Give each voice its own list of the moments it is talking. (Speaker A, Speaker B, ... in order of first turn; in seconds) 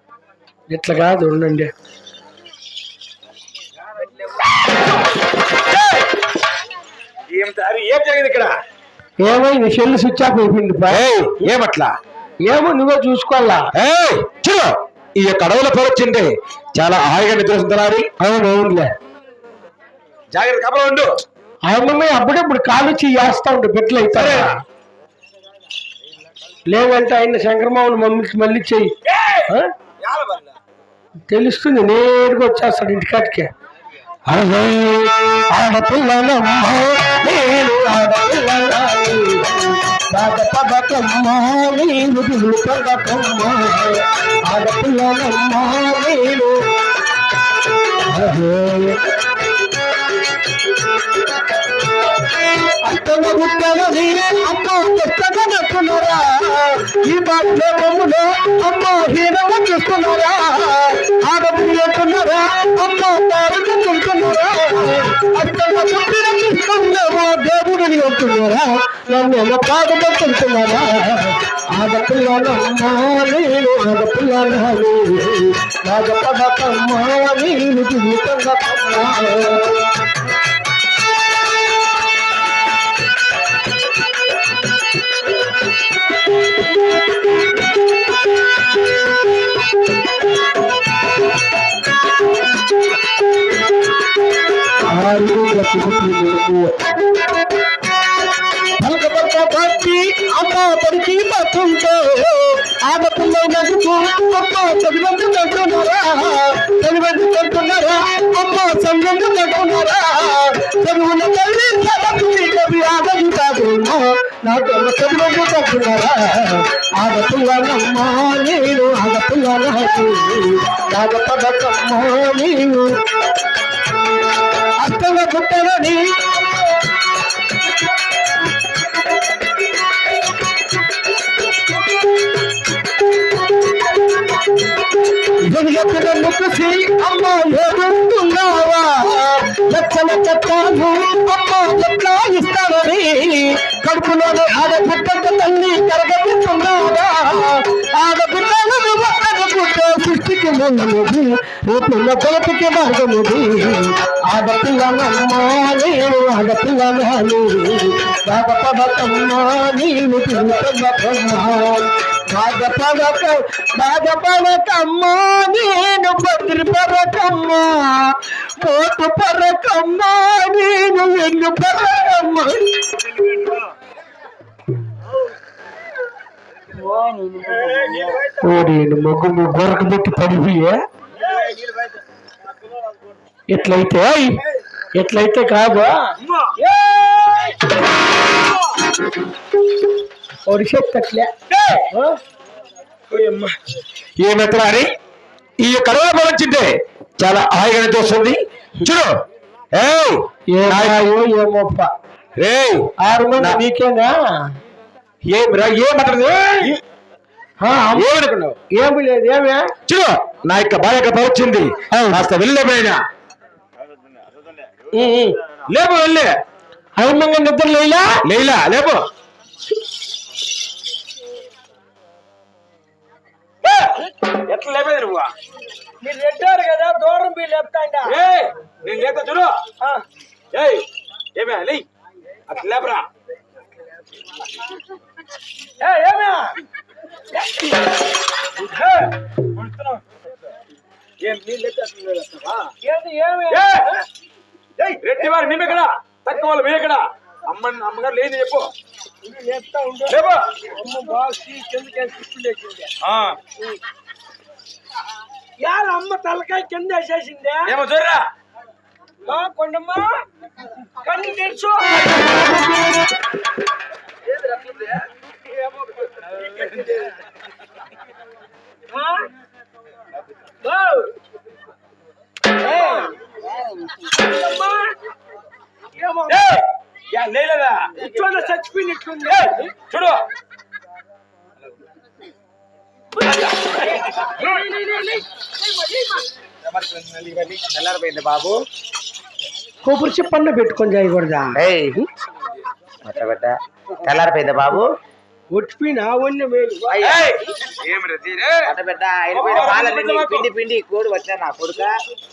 Speaker A: 0.7-1.7, 9.2-11.0, 12.4-13.7, 18.2-18.9, 21.6-24.5, 26.6-28.9, 29.5-29.7, 31.3-33.5, 34.3-46.5, 48.1-49.0, 52.8-79.8, 94.9-96.7, 98.8-122.9, 124.8-126.0, 135.4-172.7, 178.3-180.8, 183.5-184.4, 184.9-186.1, 190.5-191.3, 191.9-192.2, 200.5-201.9, 203.0-204.5, 207.6-208.1, 208.7-209.7, 211.9-212.2, 214.9-215.4, 217.0-218.2, 226.0-228.2, 235.8-236.6, 242.8-244.0, 249.2-252.9, 255.6-257.7, 259.2-260.2, 261.0-262.4, 268.9-269.3, 270.6-271.1, 272.6-273.1, 274.2-274.9, 276.0-276.6, 278.0-279.7, 284.0-286.3, 289.8-292.0, 295.5-297.2
Speaker B: 7.3-8.6, 10.9-11.9, 13.7-18.1, 20.3-21.2, 24.1-24.5, 29.1-29.4, 30.1-30.4, 191.5-191.9, 193.1-193.5, 194.2-194.9, 195.6-199.1, 199.7-201.0, 202.4-203.6, 205.2-206.8, 207.9-208.6, 209.9-213.0, 215.7-216.3, 218.2-219.0, 223.6-225.3, 228.1-229.6, 230.5-231.8, 232.5-233.0, 239.6-240.0, 241.2-242.7, 243.5-243.9, 244.9-248.7, 250.1-250.4, 253.0-253.4, 257.7-258.3, 276.3-278.0, 279.3-280.2, 297.1-298.7, 299.4-300.4
Speaker C: 287.2-288.6, 291.6-292.0, 293.0-294.9, 297.0-297.2, 298.6-301.9